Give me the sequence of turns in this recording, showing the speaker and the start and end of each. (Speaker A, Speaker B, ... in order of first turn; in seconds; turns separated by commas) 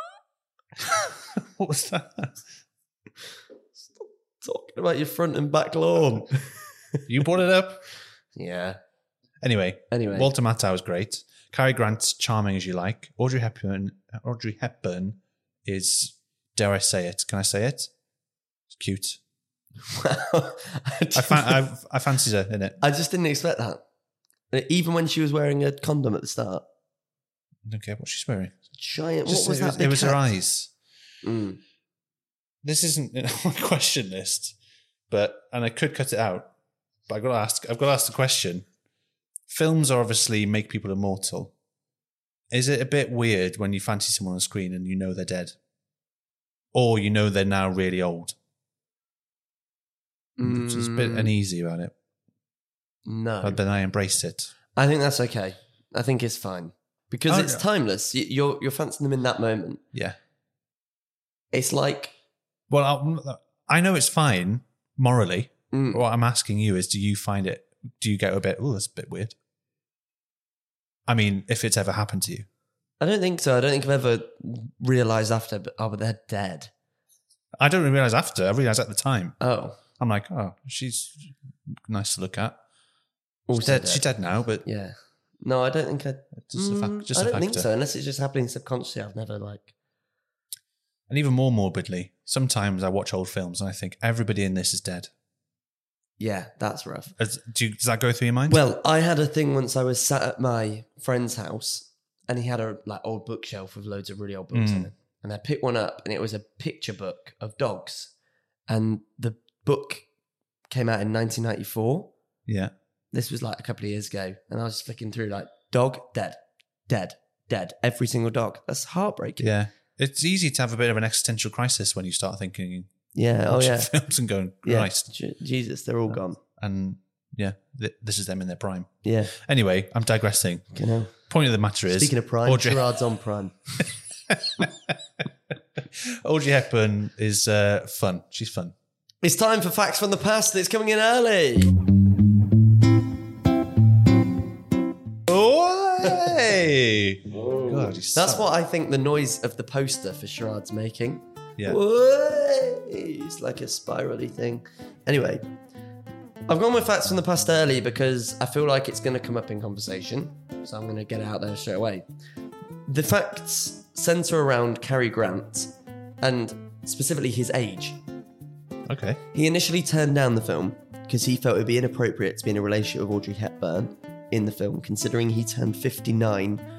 Speaker A: 0.8-2.4, Speaker B: 4.0-7.0, Speaker A: 7.1-7.8, Speaker B: 8.3-8.8, Speaker A: 9.4-17.9, Speaker B: 9.9-10.3, Speaker A: 18.7-19.2, Speaker B: 19.9-21.6, Speaker A: 21.1-22.8, Speaker B: 22.8-23.8, Speaker B: 24.5-26.6, Speaker A: 27.6-28.5, Speaker B: 28.8-30.2, Speaker A: 29.2-30.7, Speaker B: 31.2-31.6, Speaker A: 32.6-34.5, Speaker A: 35.1-36.5, Speaker A: 37.1-38.6, Speaker A: 39.5-41.5, Speaker A: 42.5-45.5, Speaker A: 46.7-48.4, Speaker B: 50.4-51.3, Speaker A: 50.4-51.9, Speaker B: 53.0-53.6, Speaker A: 53.4-54.5, Speaker B: 54.8-59.8, Speaker A: 57.3-57.6, Speaker B: 61.5-62.1, Speaker A: 62.7-69.3, Speaker B: 65.7-66.0, Speaker A: 71.1-72.5, Speaker B: 73.0-76.7, Speaker A: 77.6-79.4, Speaker B: 79.4-79.8, Speaker A: 80.0-82.6, Speaker B: 83.5-84.0, Speaker A: 83.5-84.6, Speaker B: 84.6-89.7, Speaker A: 86.4-87.7, Speaker A: 91.1-95.1, Speaker B: 96.2-97.1, Speaker A: 97.2-98.6, Speaker B: 98.5-108.1, Speaker A: 104.5-104.9, Speaker B: 108.7-110.0, Speaker B: 110.7-112.1, Speaker A: 112.5-112.7, Speaker B: 113.1-119.5, Speaker A: 119.4-122.9, Speaker B: 123.1-123.9, Speaker A: 123.5-125.1, Speaker B: 124.6-126.4, Speaker A: 126.1-130.7, Speaker B: 129.0-129.3, Speaker B: 130.7-131.1, Speaker A: 131.2-132.8, Speaker B: 131.9-133.8, Speaker A: 134.3-134.9, Speaker A: 135.9-138.7, Speaker B: 139.2-141.8, Speaker A: 145.2-148.5, Speaker B: 147.3-155.4, Speaker B: 156.5-162.0, Speaker B: 162.9-165.7, Speaker B: 166.2-168.0, Speaker A: 168.8-169.2, Speaker B: 169.3-176.6